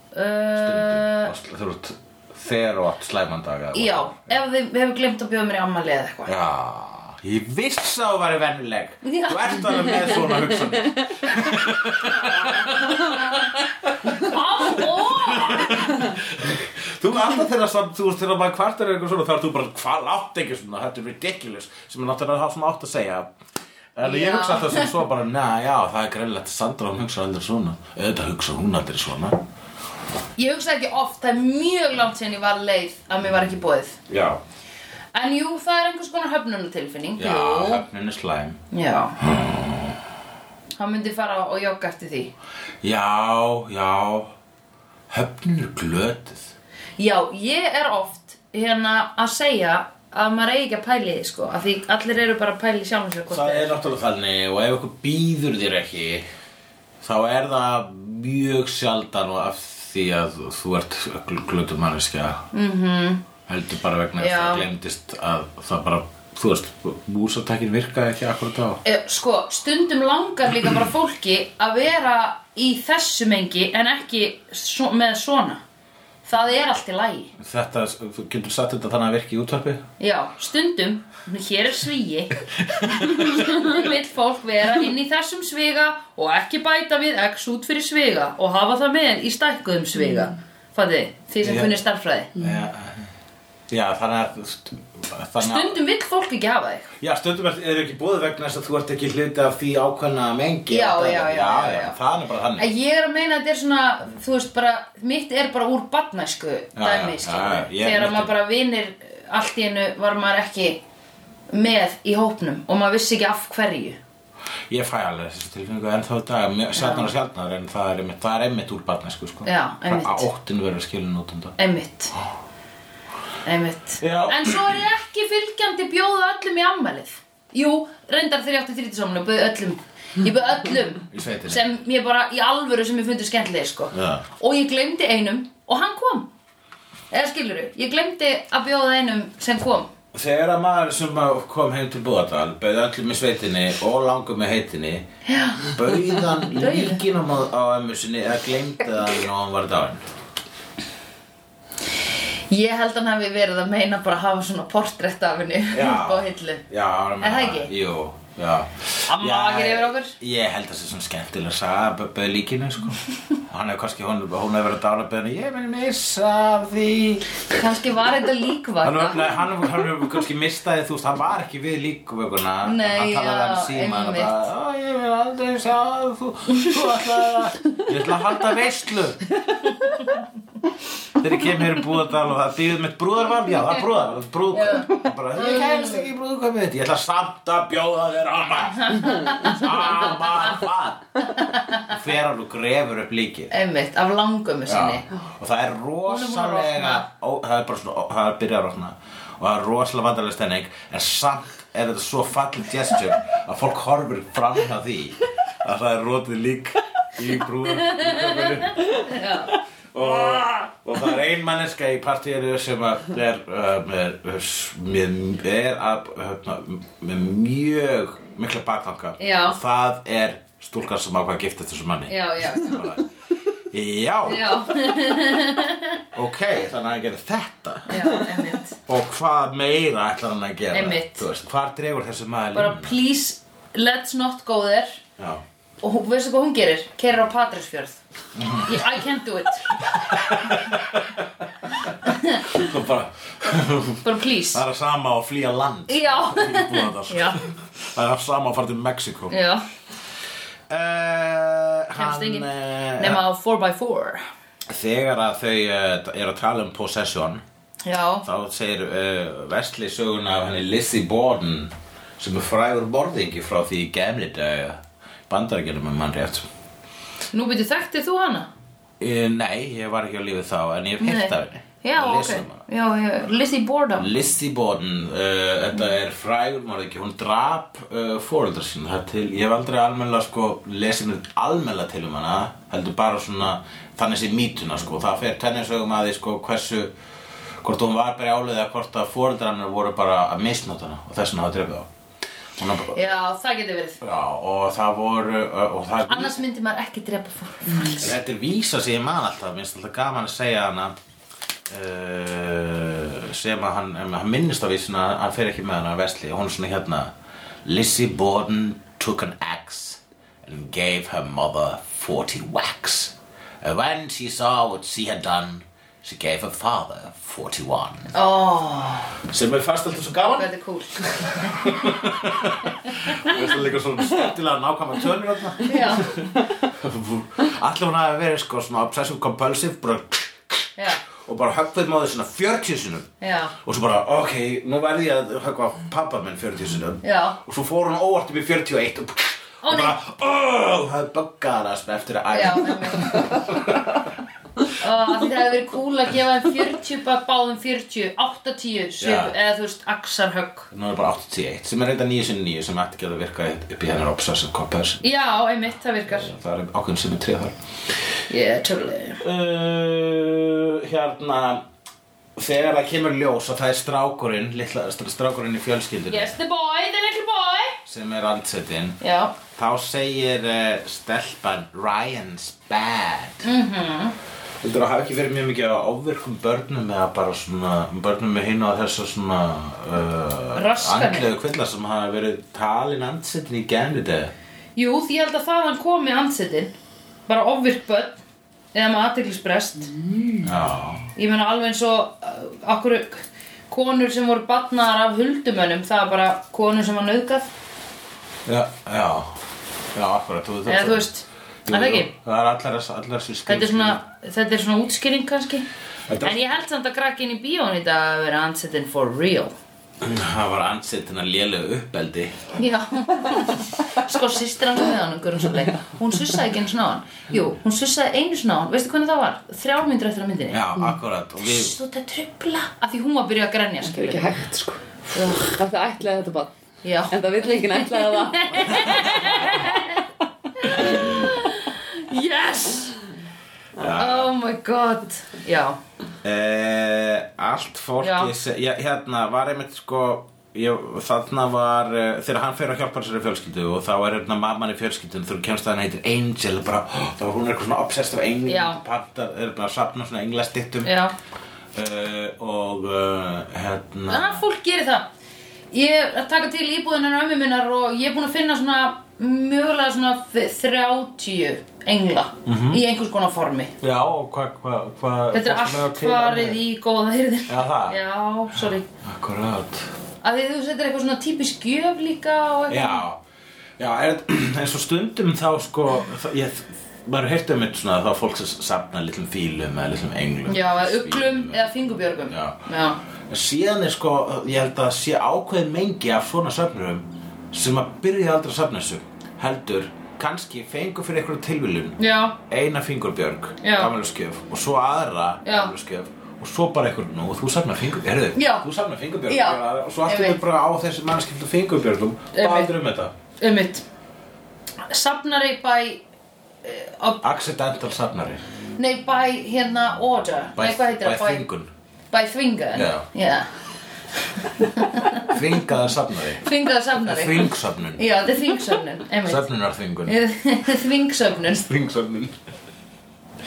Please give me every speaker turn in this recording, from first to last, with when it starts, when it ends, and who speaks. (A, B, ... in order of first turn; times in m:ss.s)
0:00.1-0:01.3 A
0:00.6-0:04.3 B
0:03.7-0:06.3 A
0:06.3-0:23.3 B
0:09.0-0:10.2 A
0:14.1-0:16.1 A
0:24.0-0:29.4 B
0:24.0-0:24.9 A
0:30.4-0:34.0 A
0:34.1-0:34.4 B
0:35.1-0:37.8 A
0:37.2-0:38.6 B
0:38.7-0:39.2 A
0:39.2-0:40.0 B
0:40.8-0:42.3 A
0:42.8-0:44.3 B
0:45.1-0:46.5 B
0:47.0-0:53.8 A
0:53.3-0:56.3 B
0:57.0-1:02.5 B
1:02.5-1:03.2 A
1:03.5-1:08.8 B
1:04.2-1:04.7 A
1:08.8-1:15.6 A
1:16.2-1:17.3 A
1:17.4-1:19.8 B
1:20.0-1:22.4 A
1:22.6-1:23.4 B
1:22.9-1:32.3 A
1:31.4-1:31.8 B
1:32.4-1:33.1 B
1:33.7-1:35.8 B
1:35.4-1:36.9 A
1:37.0-1:42.7 B
1:40.7-1:42.0 A
1:42.6-1:50.8 A
1:46.8-1:48.3 B
1:51.5-1:54.0 A
1:54.7-2:01.6 B
1:56.8-1:57.1 A
1:59.4-2:00.3 A
2:01.6-2:02.1 A
2:03.4-2:16.3 A
2:04.0-2:04.8 B
2:11.1-2:11.6 B
2:13.9-2:14.2 B
2:17.1-2:19.9 A
2:20.1-2:25.1 B
2:25.2-2:25.8 A
2:25.6-2:30.0 B
2:26.5-2:27.0 A
2:32.5-2:36.6 A
2:35.7-2:47.3 B
2:37.2-2:37.7 A
2:39.1-2:40.2 A
2:47.5-2:49.5 A
2:48.8-2:59.2 B
2:52.6-2:54.3 A
3:01.2-3:11.2 B
3:04.5-3:06.0 A
3:08.9-3:09.8 A
3:11.3-3:11.8 A
3:11.8-3:13.5 B
3:13.5-3:15.0 A
3:14.7-3:29.2 B
3:16.1-3:17.0 A
3:28.6-3:29.5 A
3:29.9-3:43.0 B
3:39.2-3:39.6 A
3:42.1-3:42.9 A
3:43.6-3:44.7 B
3:44.3-3:46.0 A
3:46.1-3:48.1 B
3:47.9-3:48.8 A
3:48.9-3:53.0 B
3:50.7-3:51.3 A
3:52.5-3:55.0 A
3:55.2-3:55.4 B
3:55.8-3:58.0 A
3:58.4-3:58.9 B
3:58.5-3:59.8 A
3:59.7-4:09.4 B
4:02.0-4:02.5 A
4:04.0-4:04.6 A
4:05.9-4:07.4 A
4:09.3-4:09.6 A
4:10.7-4:13.2 B
4:12.0-4:12.5 A
4:13.0-4:14.2 A
4:14.7-4:17.4 B
4:17.8-4:18.3 A
4:18.2-4:26.5 B
4:27.3-4:28.5 A
4:29.0-4:32.6 B
4:31.0-4:34.1 A
4:34.0-4:46.9 B
4:47.6-4:51.9 B
4:52.6-4:53.0 B
4:52.9-4:54.0 A
4:54.0-4:56.4 B
4:56.1-4:58.1 A
4:57.9-5:01.0 B
5:01.7-5:07.1 B
5:07.6-5:18.1 B
5:18.1-5:19.2 A
5:19.2-5:33.1 B
5:20.3-5:21.6 A
5:25.6-5:26.2 A
5:30.8-5:31.0 A
5:33.2-5:33.6 A
5:33.6-5:44.0 B
5:37.0-5:37.4 A
5:39.6-5:40.0 A
5:42.3-5:43.4 A
5:44.8-5:50.7 A
5:49.0-5:49.4 B
5:50.7-5:55.0 B
5:55.0-5:56.3 A
5:56.1-5:57.6 B
5:58.3-5:59.2 A
5:59.2-6:01.6 B
6:02.4-6:06.4 B
6:06.1-6:07.8 A
6:07.8-6:09.0 B
6:09.0-6:09.4 A
6:09.5-6:13.5 B
6:13.4-6:14.2 A
6:14.6-6:24.3 B
6:20.5-6:21.3 A
6:24.8-6:26.7 A
6:27.3-6:28.2 A
6:28.7-6:29.9 A
6:30.0-6:30.5 C
6:30.4-6:31.1 B
6:31.2-6:37.5 A
6:38.5-6:39.4 B
6:39.9-6:41.1 B
6:40.7-6:42.1 A
6:41.6-6:44.0 B
6:43.5-6:45.7 A
6:46.1-6:46.5 B
6:46.2-6:49.5 A
6:50.0-6:52.4 B
6:52.6-7:00.6 A
7:00.5-7:01.8 B
7:01.4-7:04.3 A
7:03.9-7:06.5 C
7:05.1-7:05.6 A
7:06.8-7:10.0 A
7:07.1-7:09.8 C
7:10.6-7:13.0 A
7:10.8-7:11.2 B
7:13.8-7:14.3 B
7:13.9-7:15.8 A
7:16.2-7:31.0 B
7:18.0-7:18.3 A
7:28.5-7:28.8 A
7:30.8-7:31.1 A
7:31.8-7:34.4 B
7:34.1-7:35.1 A
7:35.7-7:43.7 A
7:42.5-7:42.8 B
7:43.8-7:46.6 B
7:45.3-7:48.9 A
7:47.5-7:48.0 B
7:48.5-7:49.9 B
7:50.2-7:53.0 A
7:52.7-7:53.2 B
7:53.8-8:01.7 B
8:00.5-8:03.0 A
8:02.3-8:02.6 B
8:03.3-8:23.1 B
8:12.0-8:12.4 A
8:13.6-8:13.9 A
8:15.4-8:15.7 A
8:18.4-8:18.7 A
8:19.3-8:20.4 A
8:22.3-8:22.7 A
8:23.4-8:23.8 A
8:24.9-8:26.0 A
8:26.6-8:27.2 A
8:27.2-8:28.4 B
8:28.8-8:31.5 A
8:30.6-8:31.7 B
8:32.1-8:33.5 A
8:32.7-8:33.1 B
8:34.4-8:35.3 A
8:35.2-8:38.1 B
8:36.4-8:39.5 A
8:39.2-8:40.2 B
8:40.0-8:41.7 A
8:41.6-8:42.4 B